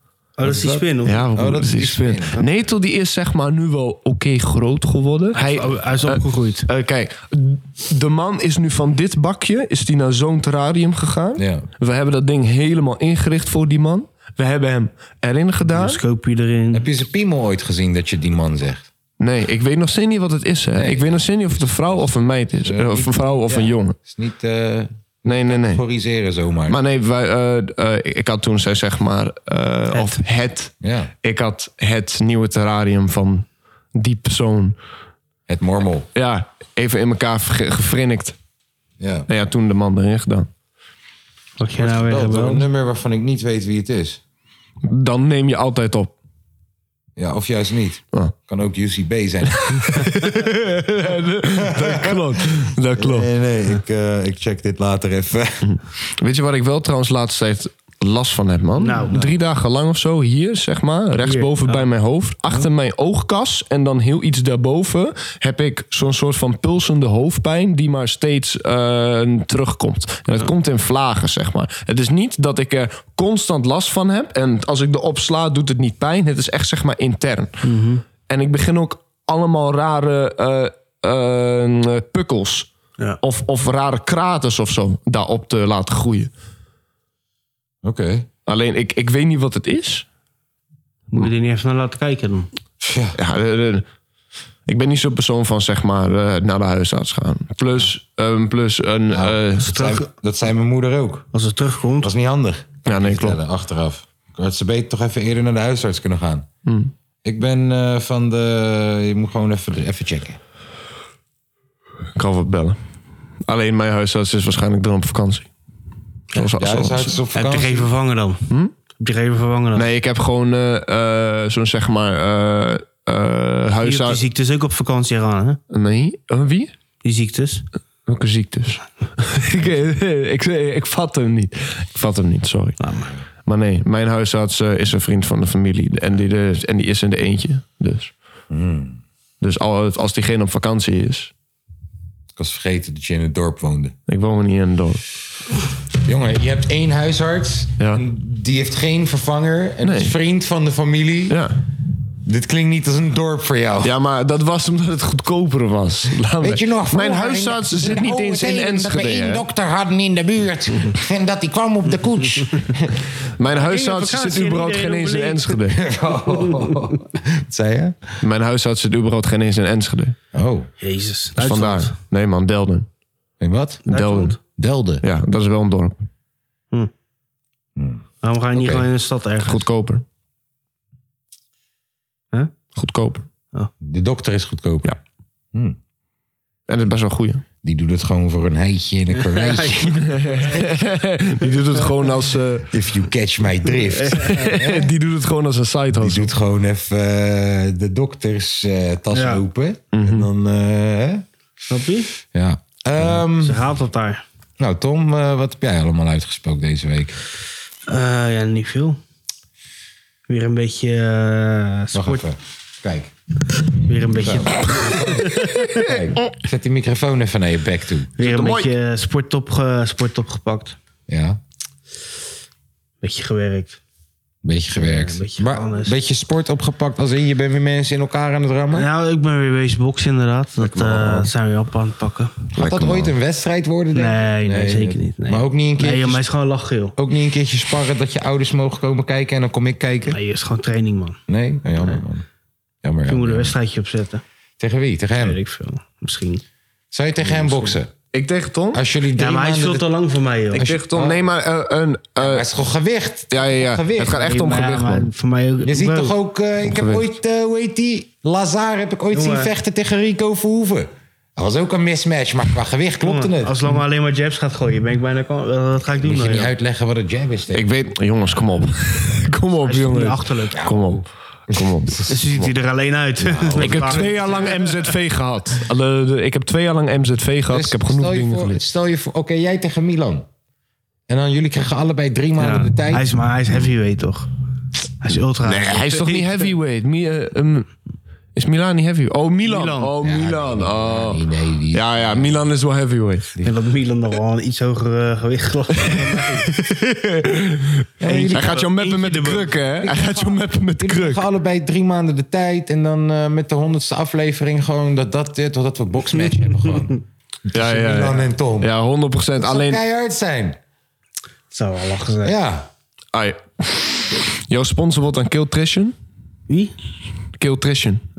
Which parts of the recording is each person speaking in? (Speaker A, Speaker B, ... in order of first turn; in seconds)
Speaker A: 0.4-1.2, 5.3-6.7, 15.7-16.9, 29.9-30.2, 41.6-42.6, 58.8-59.3, 61.2-61.8, 77.6-78.0, 91.1-92.5, 99.6-100.0, 101.3-102.1, 117.3-118.4, 119.0-119.9, 123.8-125.6, 127.0-127.6, 132.8-133.1, 163.5-165.6, 166.3-166.9, 170.8-171.9, 173.9-174.4, 178.2-179.6, 189.2-190.6, 193.9-194.5, 199.1-199.4, 201.7-202.1, 203.3-204.2, 207.9-209.0, 210.3-212.2, 213.8-215.8, 218.2-220.8, 223.0-223.8, 224.8-225.9, 228.7-232.3, 233.9-236.9, 240.1-241.2, 243.1-244.2, 245.2-246.4, 249.2-250.6, 254.1-256.1, 259.1-259.5, 263.0-266.5, 269.6-270.6, 272.1-274.7, 282.4-284.3, 285.0-286.5, 289.4-289.9, 293.4-296.5, 298.0-299.6, 311.5-312.3, 316.5-316.7
Speaker B: 0.4-2.4, 11.4-11.7, 16.7-18.9, 20.7-21.2, 22.6-26.8, 30.8-31.1, 35.5-36.1, 39.0-39.3, 41.8-44.2, 47.2-50.2, 51.6-55.6, 87.8-88.3, 92.8-93.2, 99.1-101.3, 102.0-106.5, 107.2-110.4, 116.4-117.9, 138.5-139.0, 142.3-143.9, 146.0-151.4, 152.2-153.9, 156.4-163.0, 165.7-168.0, 170.3-170.7, 173.4-173.8, 174.6-175.0, 177.8-178.8, 183.8-184.9, 185.5-185.8, 187.6-190.6, 192.7-194.9, 196.0-201.2, 202.3-203.6, 204.6-207.2, 211.9-213.1, 214.1-218.1, 221.1-221.4, 224.4-228.9, 230.7-231.2, 232.5-236.2, 236.9-240.2, 241.3-242.2, 242.8-243.5, 244.6-245.4, 246.9-247.9, 248.7-249.9, 250.5-251.2, 252.2-254.2, 255.6-263.6, 266.0-267.6, 270.5-272.0, 273.5-274.1, 277.5-280.2, 281.1-283.1, 290.0-292.4, 298.0-298.6, 299.8-308.7, 309.4-310.6, 312.2-312.7
Speaker C: 1.0-16.0, 19.2-23.9, 25.2-25.8, 26.7-34.8, 36.1-38.3, 39.3-40.5, 44.8-46.1, 49.5-53.3, 55.6-77.5, 78.3-82.7, 83.2-86.3, 88.5-90.0, 93.2-93.8, 94.7-99.7, 102.8-103.4, 106.7-106.9, 112.2-112.8, 113.5-115.5, 116.3-117.1, 119.7-124.2, 125.7-126.7, 128.1-132.8, 133.4-138.1, 139.4-141.3, 144.1-145.0, 149.8-150.1, 151.3-151.6, 153.8-159.4, 163.4-165.8, 168.2-170.1, 171.4-172.9, 173.9-174.4, 175.0-176.0, 179.4-180.0, 182.8-183.2, 186.7-187.4, 190.1-192.7, 194.1-196.3, 199.9-200.3, 218.2-218.7, 232.6-233.1, 248.1-248.8, 250.6-252.4, 253.3-255.1, 256.6-257.0, 267.5-272.5, 273.5-278.6, 285.4-287.7, 288.3-291.2, 291.7-293.3, 296.5-301.2, 307.5-309.8, 313.1-315.9, 317.4-318.0